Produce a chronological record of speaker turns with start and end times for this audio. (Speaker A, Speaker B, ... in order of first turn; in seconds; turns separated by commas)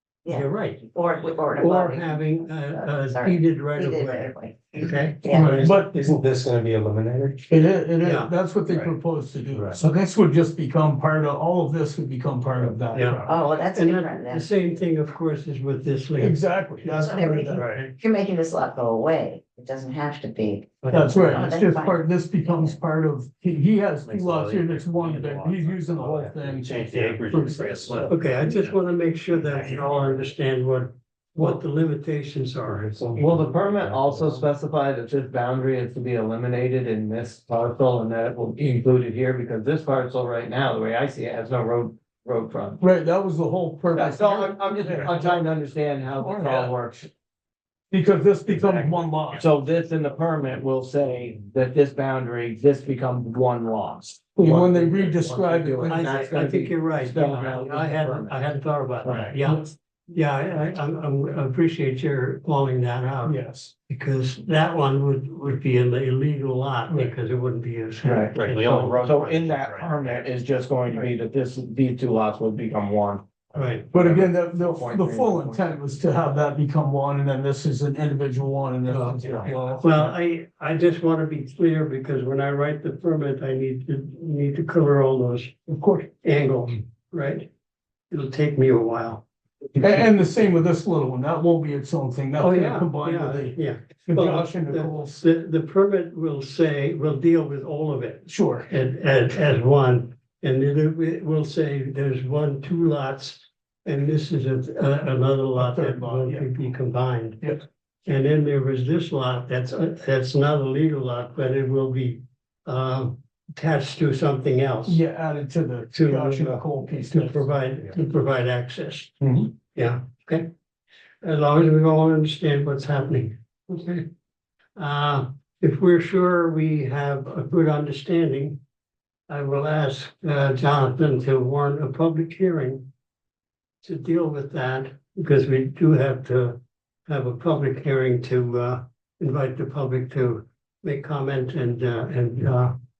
Speaker A: 0.2-5.7, Speaker B: 0.3-0.9, Speaker B: 1.6-5.7, Speaker C: 5.3-6.2, Speaker D: 5.6-7.4, Speaker C: 7.5-13.3, Speaker B: 8.0-8.3, Speaker B: 12.9-17.9, Speaker A: 13.3-14.5, Speaker C: 16.2-17.6, Speaker A: 17.0-22.8, Speaker D: 17.6-17.9, Speaker B: 20.8-21.2, Speaker C: 20.9-28.1, Speaker D: 24.1-28.7, Speaker B: 28.1-33.0, Speaker D: 29.5-29.8, Speaker D: 32.9-34.4, Speaker E: 33.2-42.8, Speaker C: 42.8-45.4, Speaker E: 43.9-47.1, Speaker C: 46.2-46.7, Speaker C: 47.9-49.5, Speaker E: 48.6-58.4, Speaker C: 54.4-56.2, Speaker B: 55.8-69.0, Speaker E: 59.0-59.4, Speaker C: 63.2-63.7, Speaker C: 66.9-67.2, Speaker E: 68.0-68.3, Speaker D: 68.2-70.2, Speaker E: 69.0-75.7, Speaker B: 73.5-73.9, Speaker C: 73.9-80.2, Speaker B: 78.9-79.2, Speaker B: 79.8-85.5, Speaker C: 85.7-86.1, Speaker B: 86.2-87.5, Speaker B: 88.1-89.2, Speaker C: 89.8-95.2, Speaker B: 92.4-107.5, Speaker C: 98.3-98.7, Speaker C: 105.6-106.5, Speaker B: 108.1-115.0, Speaker C: 114.9-117.5, Speaker B: 115.9-120.5, Speaker B: 121.2-124.1, Speaker B: 124.8-128.6, Speaker B: 129.3-132.9, Speaker B: 133.8-142.8